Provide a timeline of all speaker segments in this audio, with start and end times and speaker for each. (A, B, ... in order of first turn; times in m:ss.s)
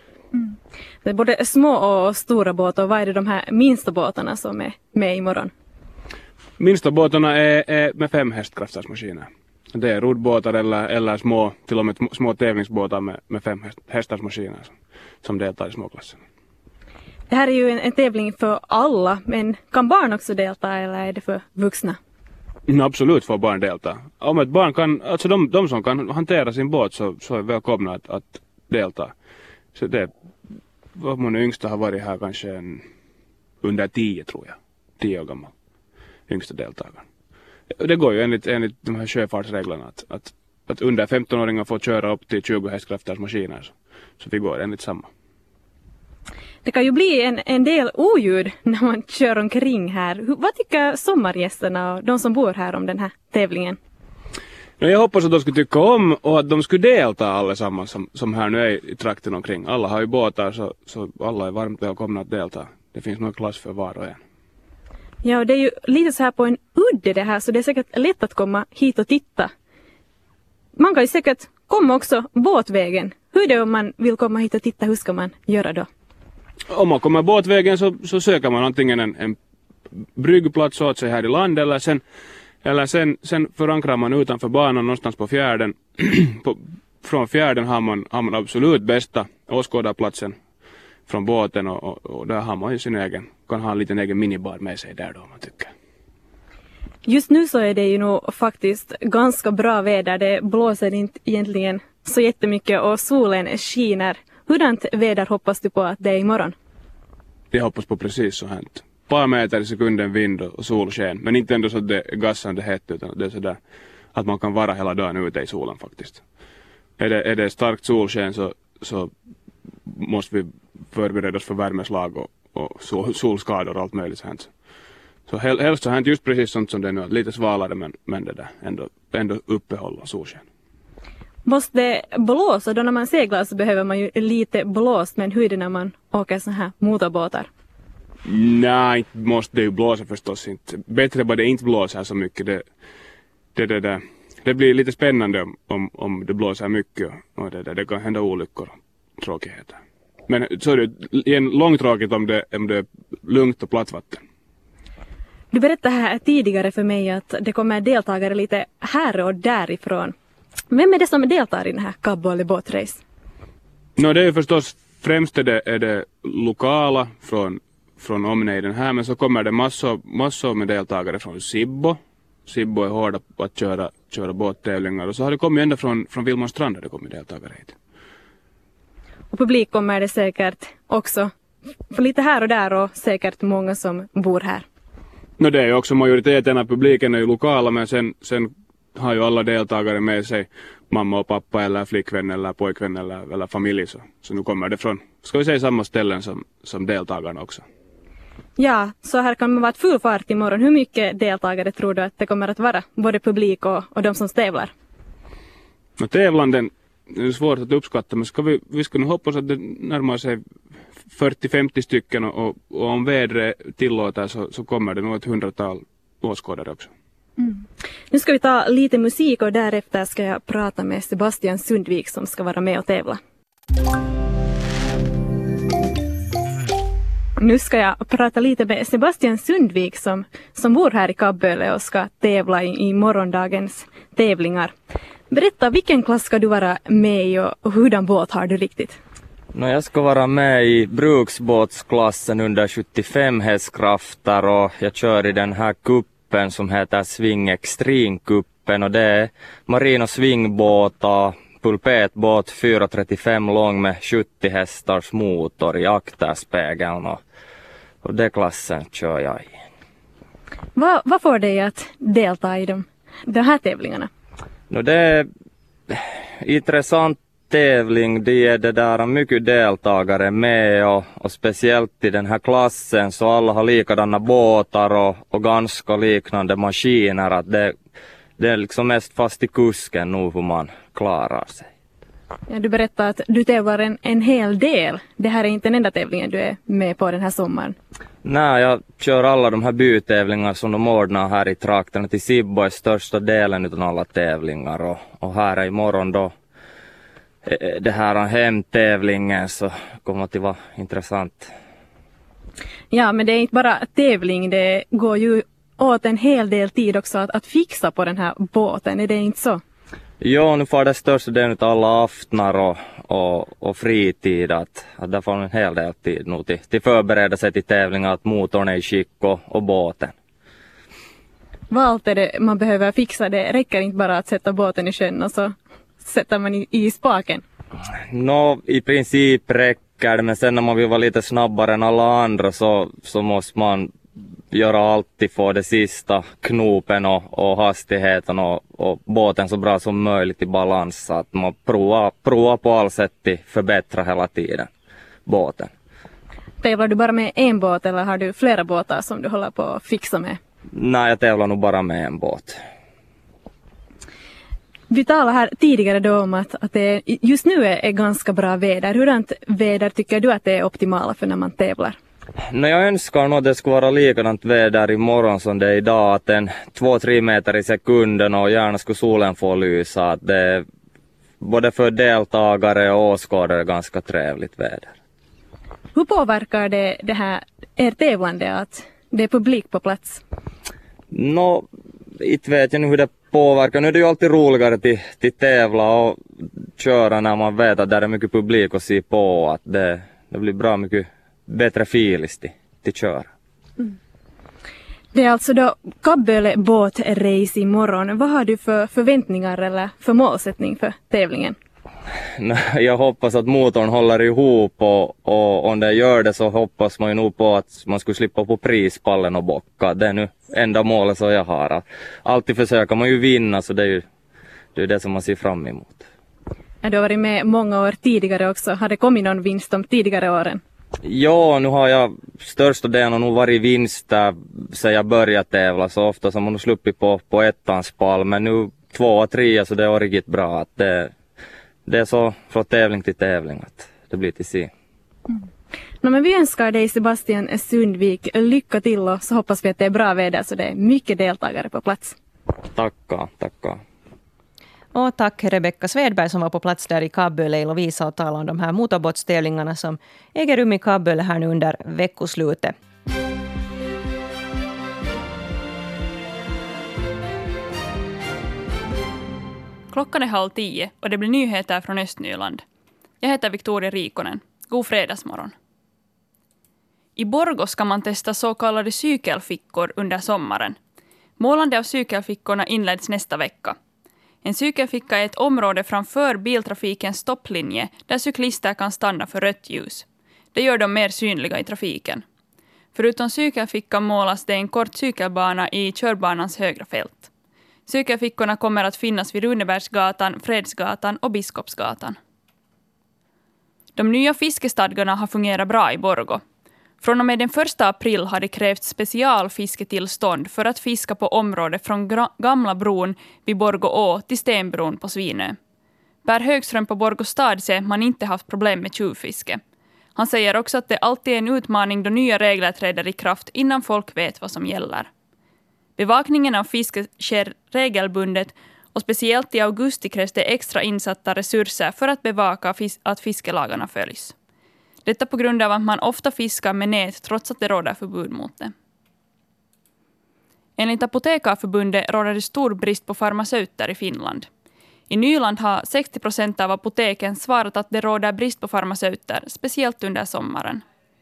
0:00.3-0:05.5 A
0:06.6-0:16.2 B
0:17.3-0:22.0 A
0:22.7-0:29.1 B
0:29.7-0:30.1 B
0:31.0-0:32.8 B
0:33.6-0:35.5 B
0:36.3-0:37.0 B
0:37.8-0:45.1 B
0:46.6-0:53.8 A
0:54.8-1:04.2 B
1:05.2-1:09.5 A
1:10.8-1:15.9 A
1:16.7-1:19.4 B
1:20.2-1:22.0 B
1:22.6-1:30.4 B
1:31.1-1:35.7 B
1:37.0-1:46.5 A
1:47.5-1:53.6 B
1:54.1-1:56.2 B
1:57.0-1:59.1 B
1:59.9-2:04.5 B
2:05.3-2:10.4 B
2:11.4-2:17.5 A
2:18.2-2:22.6 B
2:23.5-2:34.2 B
2:35.5-2:40.1 A
2:40.7-2:43.0 A
2:44.0-2:57.7 B
2:59.3-3:01.3 A
3:01.9-3:04.6 A
3:05.4-3:17.6 B
3:18.6-3:24.7 A
3:26.0-3:30.4 B
3:31.1-3:36.9 B
3:37.4-3:43.2 A
3:47.4-3:54.7 A
3:55.3-3:59.0 A
3:59.5-4:17.2 C
4:18.0-4:19.5 C
4:20.8-4:24.1 A
4:24.7-4:25.3 C
4:25.9-4:37.7 C
4:38.4-4:41.7 C
4:42.5-4:47.7 A
4:48.2-4:56.3 C
4:57.4-5:01.5 C
5:02.9-5:09.6 A
5:10.2-5:20.1 C
5:21.7-5:27.4 A
5:28.1-5:33.9 C
5:34.5-5:44.7 C
5:45.2-5:45.7 C
5:46.6-5:50.4 A
5:50.7-5:52.6 C
5:54.9-6:02.0 A
6:02.5-6:10.6 C
6:11.4-6:14.9 C
6:15.9-6:20.2 A
6:21.1-6:21.7 C
6:22.2-6:26.2 C
6:26.8-6:33.3 C
6:35.1-6:41.6 A
6:42.4-6:54.0 C
6:54.7-6:56.0 C
6:56.8-7:00.6 A
7:01.0-7:11.1 C
7:11.8-7:14.7 C
7:16.0-7:22.2 A
7:22.7-7:23.8 C
7:24.9-7:32.7 D
7:39.9-7:42.6 E
7:43.2-7:45.5 E
7:47.2-7:50.8 E
7:51.4-7:53.8 E
7:54.4-8:02.2 E
8:02.9-8:07.3 E
8:07.9-8:12.2 E
8:14.0-8:16.4 E
8:17.0-8:25.6 E
8:26.2-8:29.6 E
8:30.2-8:35.1 E
8:36.0-8:44.3 E
8:45.0-8:48.7 E
8:50.8-8:54.5 E
8:55.1-9:00.8 E